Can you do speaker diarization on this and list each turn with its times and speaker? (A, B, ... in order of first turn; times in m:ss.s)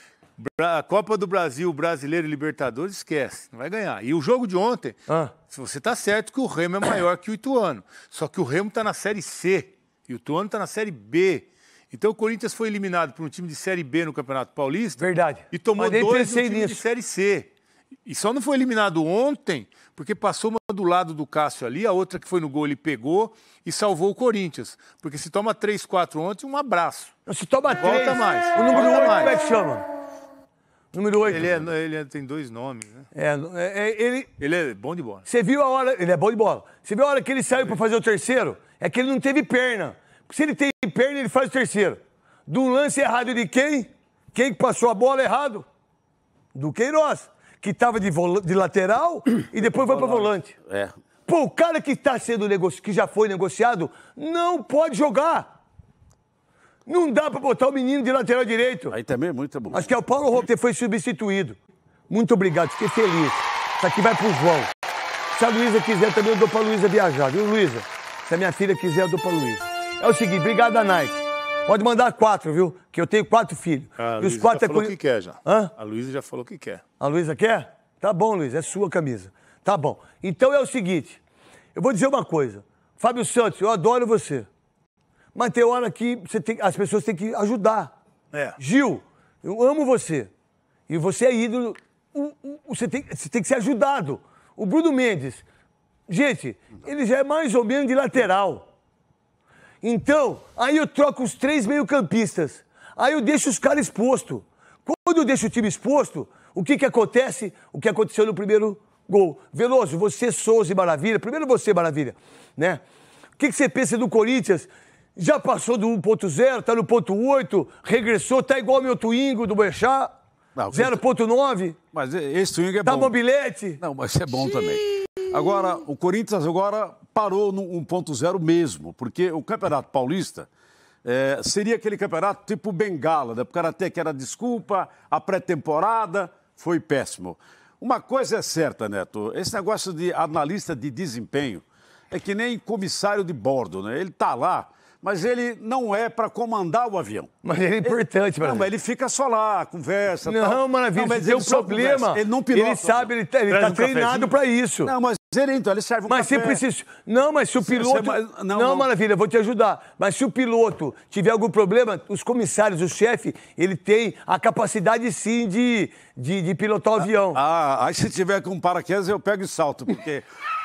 0:00.4-0:17.5 A
0:05.1-0:05.3 B
0:15.0-0:16.8 B
0:18.0-0:27.1 A
0:27.2-0:29.8 B
0:27.8-0:29.4 A
0:30.9-0:31.6 B
0:31.2-0:33.1 A
0:33.1-0:34.3 B
0:34.4-0:35.2 A
0:35.2-0:45.6 B
0:46.5-0:50.6 B
0:49.8-0:50.9 C
0:51.3-0:55.5 B
0:56.8-0:58.9 B
0:58.9-0:59.9 C
0:59.7-1:01.6 B
1:02.1-1:04.7 B
1:05.3-1:15.7 B
1:14.0-1:16.8 A
1:17.0-1:21.2 B
1:21.7-1:24.5 B
1:25.3-1:27.9 B
1:28.3-1:28.6 A
1:28.6-1:30.3 B
1:30.9-1:35.4 B
1:36.1-1:38.6 B
1:39.8-1:52.8 B
1:53.4-2:00.1 B
2:00.6-2:01.0 C
2:00.7-2:01.8 B
2:01.9-2:03.2 C
2:02.8-2:03.8 B
2:03.8-2:10.5 C
2:11.0-2:27.3 C
2:27.4-2:28.7 B
2:27.8-2:33.1 C
2:30.2-2:34.9 B
2:33.5-2:34.3 A
2:34.8-2:36.6 C
2:36.1-2:47.4 B
2:37.6-2:38.9 C
2:47.3-2:50.2 C